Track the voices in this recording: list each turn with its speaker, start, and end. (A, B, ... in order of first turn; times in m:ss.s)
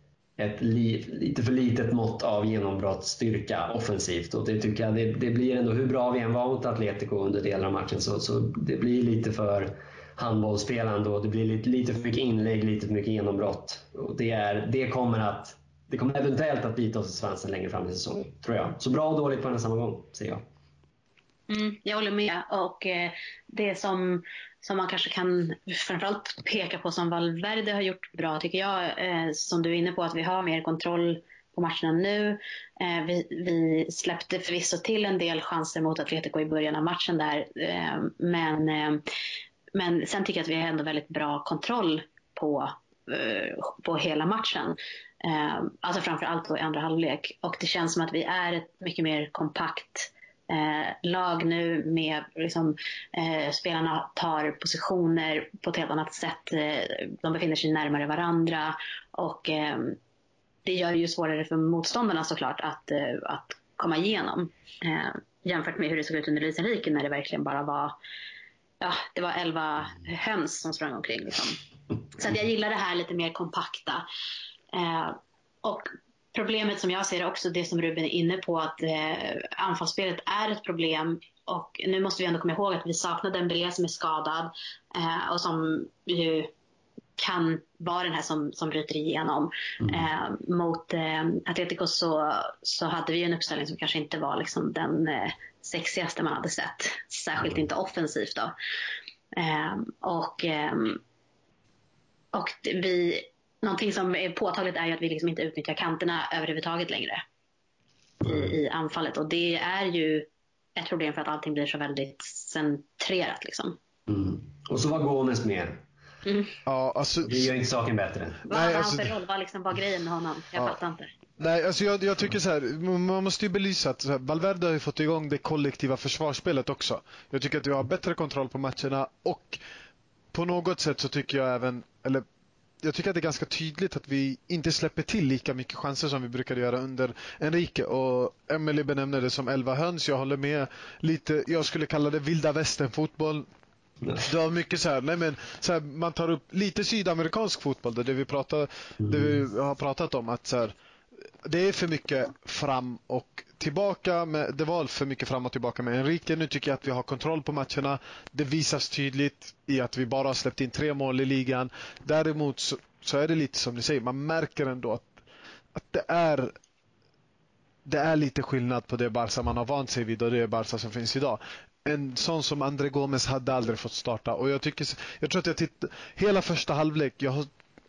0:00.4-0:20.4 A
0:21.5-0:39.0 B
0:39.7-1:00.0 B
1:00.6-1:08.0 B
1:08.8-1:11.6 B
1:12.1-1:14.0 B
1:14.7-1:26.5 B
1:27.2-1:38.5 B
1:39.3-1:41.0 B
1:42.3-1:47.2 B
1:48.2-1:53.8 B
1:54.1-1:55.8 A
1:56.2-1:56.5 B
1:56.6-1:57.5 C
1:57.2-1:58.4 A
1:58.5-2:01.1 B
1:58.5-1:59.1 C
2:01.4-2:09.6 C
2:10.3-2:12.2 C
2:12.8-2:23.5 C
2:24.2-2:30.7 C
2:29.0-2:29.4 A
2:31.4-2:45.1 C
2:45.7-2:46.5 C
2:47.8-2:57.5 C